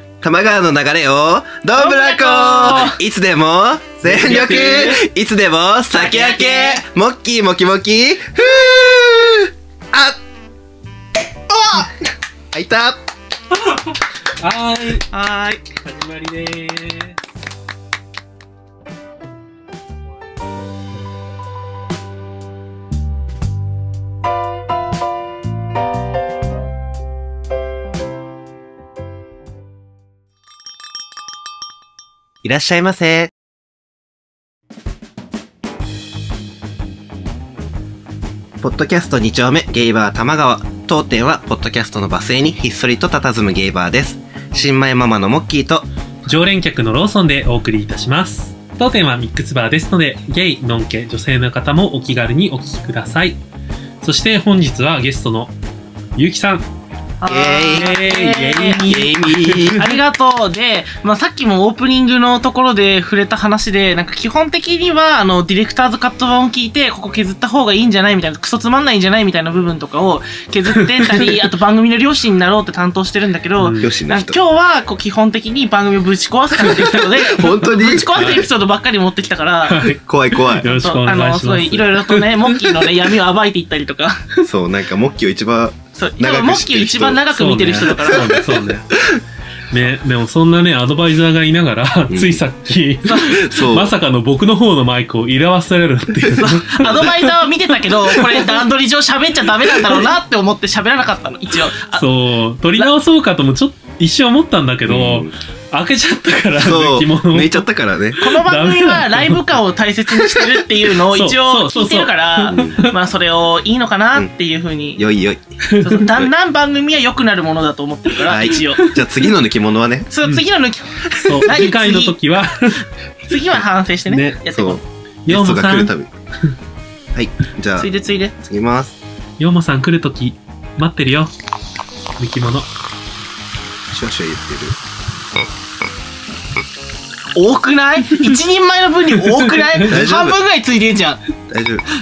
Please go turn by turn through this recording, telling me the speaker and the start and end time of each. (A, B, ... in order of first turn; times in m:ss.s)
0:00.2-0:10.2 A
0:01.8-0:03.0 B
0:04.0-0:05.0 C
0:05.9-0:06.8 B
0:11.5-0:11.9 B
0:12.5-0:13.0 A
0:13.5-0:15.1 C
0:15.1-0:15.6 B
0:15.8-0:17.2 C
0:32.4-0:33.3 A
0:38.6-0:45.9 A
0:46.2-0:53.4 C
0:54.0-0:55.5 C
0:56.2-0:56.6 C
0:57.2-0:58.9 B
0:57.3-0:58.0 A
0:57.7-0:59.9 C
0:58.9-0:59.9 A
0:59.8-1:19.9 B
1:10.8-1:11.3 C
1:13.6-1:14.0 C
1:13.8-1:14.4 A
1:16.6-1:17.0 C
1:17.2-1:18.2 A
1:18.1-1:18.5 C
1:19.6-1:22.5 C
1:20.0-1:20.7 A
1:20.6-1:24.4 B
1:24.4-1:27.2 A
1:26.0-1:28.4 B
1:27.3-1:28.9 C
1:27.9-1:28.3 A
1:29.7-1:37.2 C
1:32.1-1:32.4 A
1:33.1-1:33.4 B
1:33.2-1:33.9 A
1:36.4-1:42.0 B
1:38.2-1:38.4 C
1:41.9-1:47.6 C
1:44.9-1:45.3 A
1:46.6-1:48.2 A
1:48.2-1:49.4 C
1:48.2-1:55.0 B
1:51.1-1:52.9 C
1:52.5-1:52.8 A
1:55.0-1:55.4 A
1:55.6-1:56.0 C
1:55.8-1:58.9 B
1:58.2-2:00.1 A
2:00.1-2:02.2 B
2:01.1-2:02.8 C
2:03.3-2:04.8 B
2:04.1-2:04.4 C
2:04.5-2:06.1 A
2:05.3-2:05.9 C
2:07.1-2:07.9 A
2:07.8-2:08.3 B
2:08.4-2:09.0 A
2:09.4-2:11.3 C
2:12.2-2:12.7 C
2:13.9-2:14.8 A
2:17.4-2:21.2 B
2:19.3-2:19.9 C
2:19.9-2:20.4 A
2:21.5-2:21.8 A